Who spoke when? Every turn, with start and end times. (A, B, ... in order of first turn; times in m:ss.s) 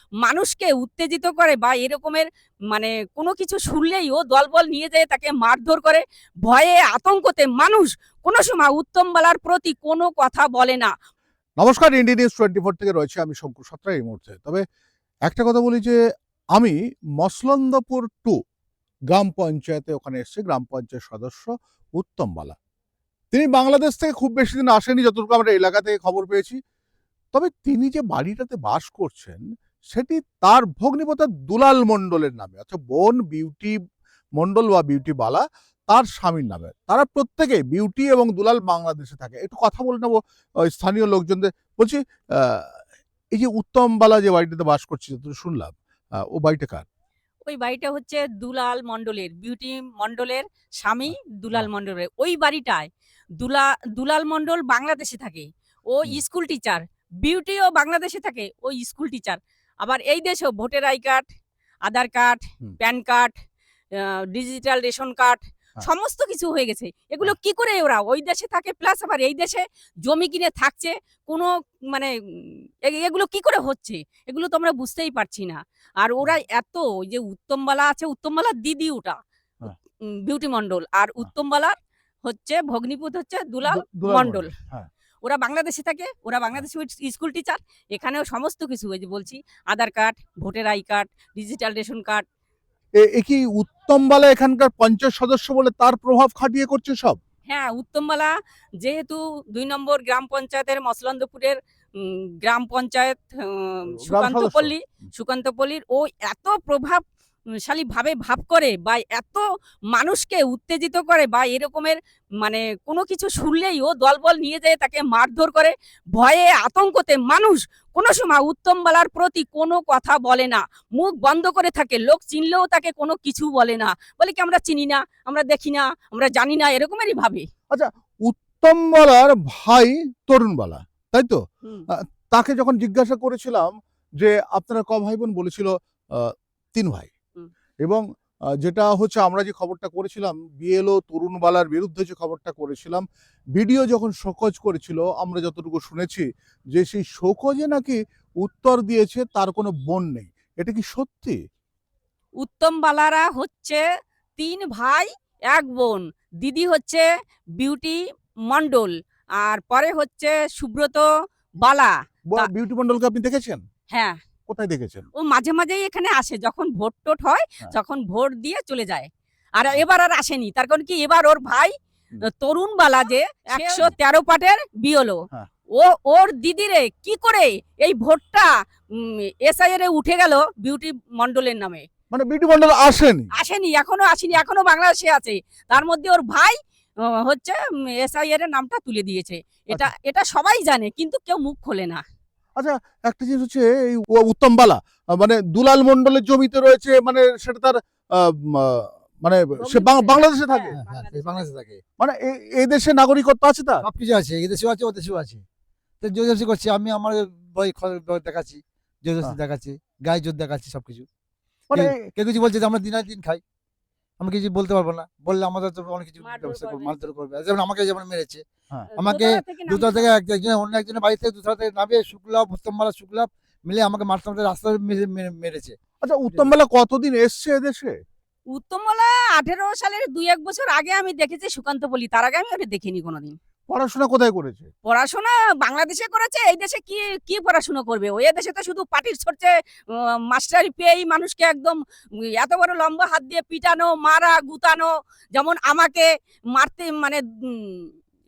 0:00.2-0:10.9 A
0:11.6-0:14.6 B
0:15.3-0:16.0 B
0:16.6-0:18.4 B
0:19.1-0:22.6 B
0:23.3-0:26.6 B
0:27.3-0:29.4 B
0:29.9-0:33.7 B
0:34.4-0:42.7 B
0:43.3-0:46.8 B
0:47.5-0:52.9 A
0:51.1-0:51.7 B
0:53.4-1:01.2 A
1:01.8-1:03.3 A
1:04.0-1:19.2 A
1:20.0-1:24.5 A
1:23.7-1:24.9 B
1:25.2-1:32.2 A
1:33.0-1:37.2 B
1:37.5-1:47.0 A
1:44.1-1:44.7 B
1:47.6-2:07.4 A
2:07.7-2:17.1 B
2:18.6-2:23.0 B
2:23.6-2:31.4 B
2:32.4-2:33.8 A
2:34.4-2:37.0 A
2:37.6-2:41.1 A
2:41.6-2:42.5 A
2:42.3-2:43.6 B
2:43.9-2:44.2 A
2:44.5-2:45.1 B
2:45.2-2:55.2 A
2:53.6-2:53.9 B
2:55.8-3:01.8 A
3:02.1-3:03.3 B
3:03.4-3:06.6 A
3:07.2-3:12.0 A
3:12.6-3:20.8 B
3:19.6-3:21.4 A
3:20.7-3:21.8 C
3:22.0-3:23.8 B
3:23.8-3:25.4 C
3:26.0-3:31.1 C
3:31.7-3:32.0 B
3:31.7-3:33.4 C
3:34.2-3:38.4 C
3:36.2-3:36.9 A
3:38.9-3:40.1 A
3:39.0-3:45.8 C
3:46.0-3:47.9 B
3:48.5-3:53.4 A
3:53.7-3:54.7 B
3:54.8-4:01.8 A
4:02.4-4:07.9 A